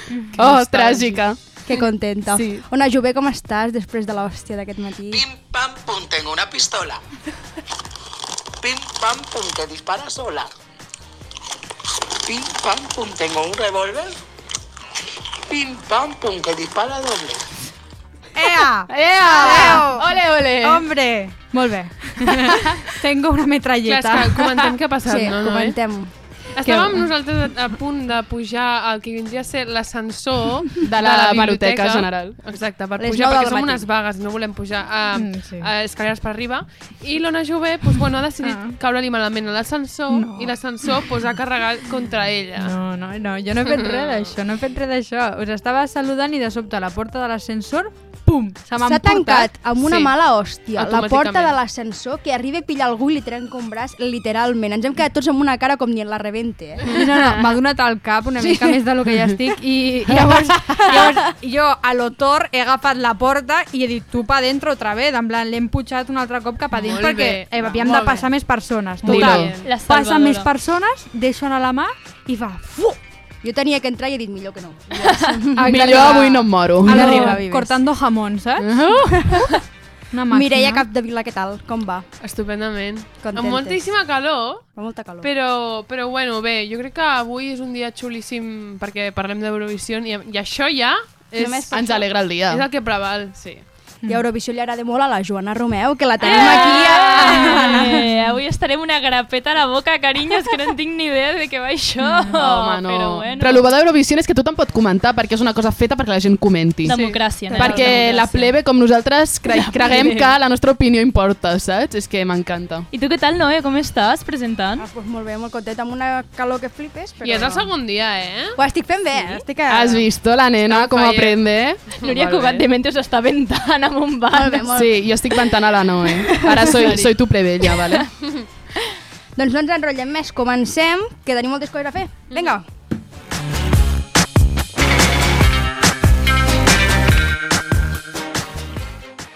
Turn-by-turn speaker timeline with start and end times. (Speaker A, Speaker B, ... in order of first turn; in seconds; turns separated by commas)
Speaker A: 0.3-1.4, Speaker B: 0.4-1.1, Speaker C: 1.6-5.2, Speaker A: 2.3-2.6, Speaker D: 5.1-7.0, Speaker D: 8.6-10.5, Speaker D: 12.2-14.1, Speaker D: 15.5-17.4, Speaker E: 18.4-20.0, Speaker A: 18.9-20.9, Speaker C: 19.2-20.0, Speaker E: 20.6-24.7, Speaker B: 23.8-25.8, Speaker C: 25.1-26.1, Speaker B: 26.6-42.8, Speaker E: 26.6-27.1, Speaker A: 30.8-32.4, Speaker C: 33.0-33.8, Speaker E: 35.1-35.7, Speaker E: 38.4-38.8, Speaker E: 40.1-40.5, Speaker E: 42.6-49.5, Speaker B: 43.6-44.3, Speaker C: 48.8-57.1, Speaker B: 49.8-50.1, Speaker B: 50.7-51.6, Speaker E: 56.8-73.0, Speaker C: 58.4-58.8, Speaker C: 60.1-61.2, Speaker B: 66.7-68.3, Speaker B: 69.0-69.7, Speaker A: 69.0-69.5, Speaker F: 69.6-70.5, Speaker C: 73.4-77.8, Speaker F: 75.0-75.4, Speaker E: 75.6-75.9, Speaker A: 75.6-77.4, Speaker E: 76.8-78.9, Speaker A: 78.6-79.4, Speaker E: 80.1-80.8, Speaker C: 80.3-82.1, Speaker B: 82.2-84.7, Speaker C: 83.2-83.8, Speaker C: 84.8-85.3, Speaker B: 85.2-93.4, Speaker C: 91.3-92.0, Speaker A: 91.7-92.7, Speaker A: 93.3-93.6, Speaker C: 94.1-98.0, Speaker B: 96.2-97.5, Speaker F: 96.2-103.7, Speaker E: 97.2-98.0, Speaker E: 102.0-102.3, Speaker A: 102.4-107.0, Speaker F: 106.8-108.5, Speaker A: 107.5-112.9, Speaker F: 109.5-110.3, Speaker F: 112.9-114.9, Speaker C: 114.8-117.7, Speaker B: 117.2-118.6, Speaker C: 118.6-120.1, Speaker B: 119.1-119.4, Speaker A: 119.7-121.8, Speaker B: 120.7-122.7, Speaker F: 122.0-124.8, Speaker C: 124.3-125.0, Speaker A: 124.7-128.1, Speaker B: 126.8-127.1, Speaker C: 129.3-132.7